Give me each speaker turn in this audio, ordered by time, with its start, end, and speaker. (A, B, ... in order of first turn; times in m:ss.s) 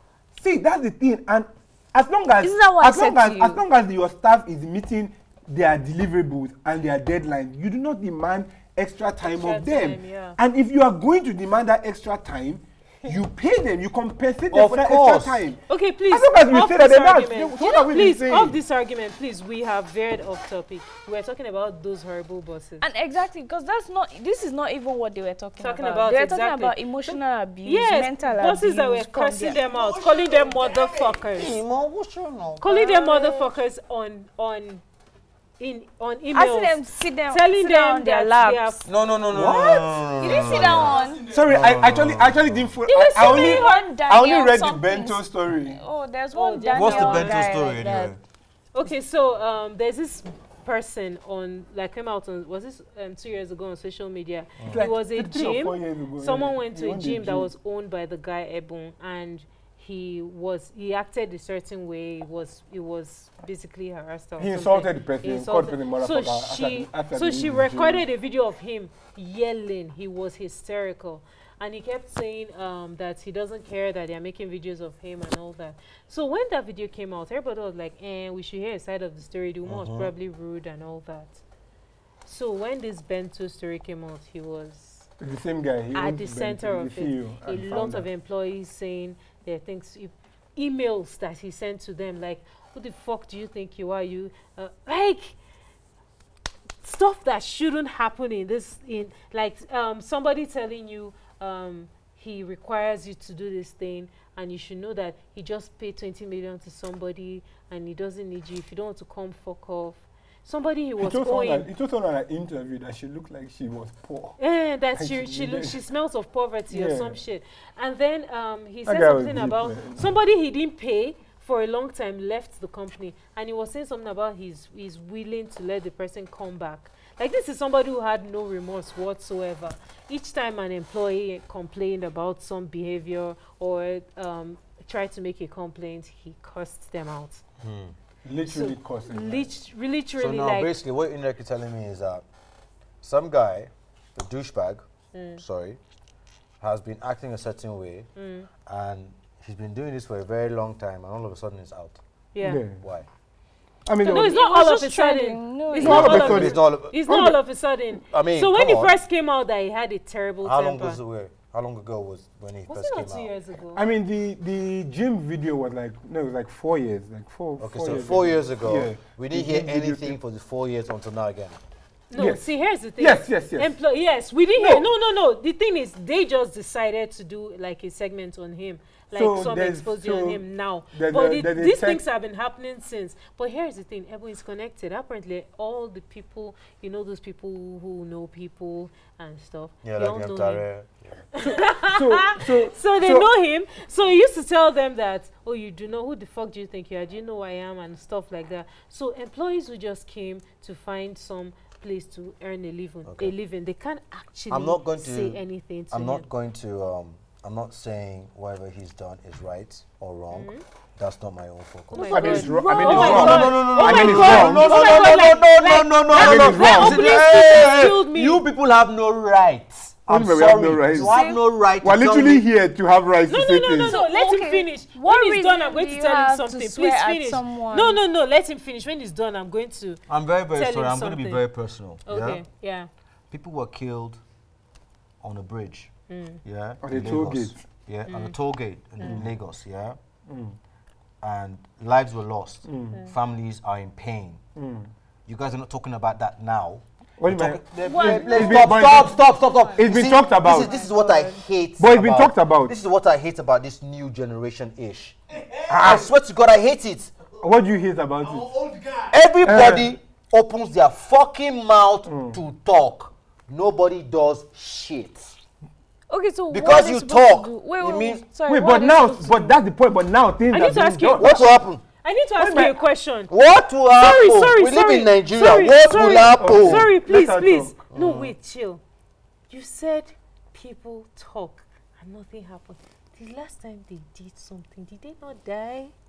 0:00.4-0:15.6 A
0:02.4-0:03.6 B
0:09.2-0:10.4 C
0:14.5-0:15.4 D
0:15.7-0:22.8 C
0:16.1-0:18.6 A
0:22.8-0:29.6 B
0:25.6-0:31.6 C
0:29.5-0:31.3 E
0:31.4-0:32.8 D
0:32.6-0:34.8 C
0:32.8-0:33.5 B
0:35.6-0:38.9 C
0:36.3-0:41.2 B
0:38.9-0:42.7 D
0:39.3-0:39.8 A
0:40.2-0:41.6 E
0:41.3-0:45.8 A
0:42.9-0:43.9 C
0:43.0-0:48.1 B
0:46.3-0:47.5 C
0:46.7-0:48.2 D
0:48.7-1:21.4 C
0:54.7-0:57.5 A
1:04.4-1:08.1 A
1:19.6-1:20.1 D
1:22.2-1:25.1 C
1:25.2-1:28.1 A
1:25.9-1:35.4 C
1:36.8-1:51.7 C
1:51.0-1:54.4 A
1:54.4-2:17.4 C
1:55.0-1:55.8 A
1:56.7-1:57.2 A
1:58.9-2:00.1 A
2:17.6-2:17.9 D
2:18.2-2:19.5 A
2:18.5-2:20.8 C
2:20.2-2:22.2 D
2:23.0-2:24.8 D
2:25.1-2:25.4 C
2:25.4-2:25.8 D
2:26.6-2:28.1 D
2:28.2-2:28.5 C
2:28.7-2:32.0 D
2:32.3-2:32.6 C
2:32.4-2:32.8 A
2:32.8-2:33.1 D
2:33.9-2:34.4 A
2:34.0-2:41.0 C
2:34.3-2:36.4 B
2:35.8-2:37.1 D
2:35.8-2:37.4 A
2:38.1-2:39.0 D
2:40.4-2:43.3 D
2:42.7-2:43.8 C
2:43.8-2:50.2 A
2:47.6-2:51.6 D
2:52.1-3:10.6 C
2:52.2-2:52.5 A
2:53.0-2:53.7 A
2:54.6-2:54.9 A
2:59.1-3:00.4 A
3:00.9-3:02.0 A
3:09.8-3:11.1 D
3:11.4-3:26.3 C
3:11.4-3:13.3 A
3:23.0-3:23.3 D
3:24.5-3:42.5 D
3:30.3-3:30.6 C
3:31.9-3:38.5 C
3:32.0-3:35.0 A
3:32.3-3:33.2 B
3:36.1-3:37.2 A
3:40.1-3:41.2 A
3:41.0-3:41.4 B
3:41.8-3:44.0 A
3:43.3-3:50.0 C
3:43.8-3:48.0 B
3:50.1-3:52.4 D
3:50.5-3:51.4 C
3:52.1-3:52.9 C
3:53.3-3:54.2 D
3:55.2-3:55.9 D
3:56.1-3:56.4 C
3:56.4-4:00.0 D
3:56.8-3:57.6 A
3:58.1-3:58.4 C
3:59.0-3:59.3 A
4:00.3-4:00.6 A
4:01.2-4:04.4 D
4:02.7-4:03.0 A
4:04.6-4:04.9 A
4:05.3-4:15.2 D
4:07.2-4:09.2 A
4:07.8-4:11.4 B
4:09.8-4:10.7 A
4:11.8-4:12.8 A
4:15.3-4:16.1 E
4:15.7-4:16.1 A
4:15.8-4:17.1 D
4:17.4-4:18.5 A
4:18.2-4:19.3 E
4:19.1-4:25.4 D
4:19.4-4:19.9 A
4:22.1-4:22.4 A
4:26.1-4:29.6 B
4:26.5-4:28.2 D
4:28.5-4:31.5 A
4:30.5-4:33.3 C
4:31.2-4:31.8 D
4:32.4-4:32.8 A
4:33.3-4:36.9 D
4:34.0-4:38.8 C
4:36.4-4:37.8 A
4:37.9-4:38.3 D
4:39.5-4:45.9 C